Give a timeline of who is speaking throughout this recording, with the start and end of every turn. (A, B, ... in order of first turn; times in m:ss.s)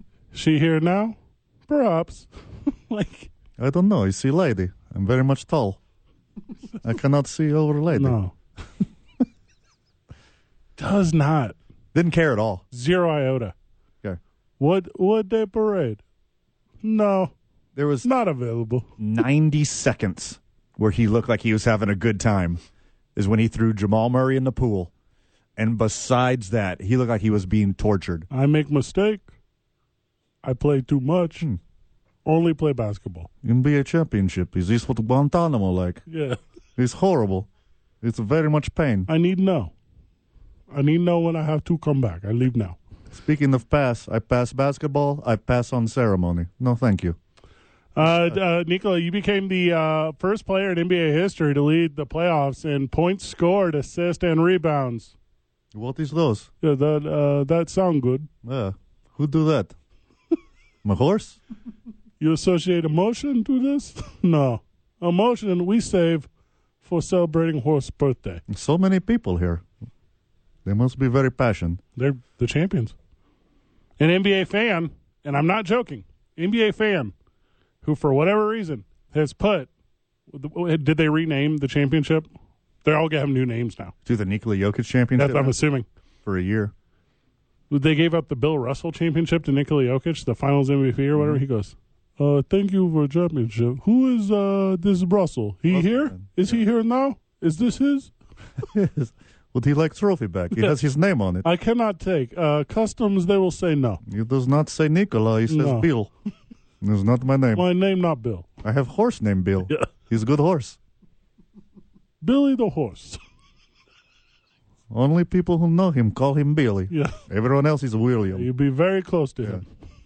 0:00.3-0:01.2 A
0:01.7-0:03.3 A
0:03.6-0:05.8 B
0:06.8-0:08.2 B
0:07.9-0:08.3 A
0:10.8-0:11.6 A
0:11.9-0:12.6 B
0:12.7-0:13.5 A
0:14.6-0:16.0 A
0:16.8-0:17.3 A
0:17.8-0:18.1 B
0:18.0-0:18.8 A
0:19.0-0:22.6 B
0:23.2-0:24.9 B
0:25.6-0:28.3 B
0:28.3-0:29.3 A
0:30.4-0:31.4 A
0:32.2-0:33.3 A
0:33.4-0:36.0 B
0:36.1-0:36.4 A
0:36.8-0:37.5 B
0:38.0-0:39.1 B
0:39.1-0:39.7 A
0:40.7-0:42.8 A
0:43.1-0:47.2 B
0:47.9-0:55.1 A
0:48.0-0:48.3 B
0:55.7-0:56.5 B
0:56.6-0:58.3 A
0:58.4-0:59.7 B
1:00.8-1:01.4 B
1:02.2-1:06.3 A
1:06.8-1:08.4 A
1:08.5-1:09.6 B
1:10.6-1:11.8 B
1:12.0-1:12.9 A
1:14.0-1:17.1 A
1:17.8-1:19.7 A
1:20.3-1:22.3 A
1:22.8-1:23.9 A
1:24.0-1:25.5 B
1:25.2-1:25.8 A
1:26.2-1:26.7 B
1:27.7-1:38.1 A
1:31.2-1:31.4 B
1:35.7-1:36.6 B
1:38.6-1:41.5 B
1:41.4-1:44.0 A
1:44.0-1:46.1 B
1:45.5-1:45.9 A
1:46.8-1:47.6 B
1:47.5-1:48.5 A
1:48.6-1:50.8 B
1:52.2-1:53.2 A
1:54.9-1:58.5 B
1:56.9-1:57.2 A
1:58.3-1:59.6 A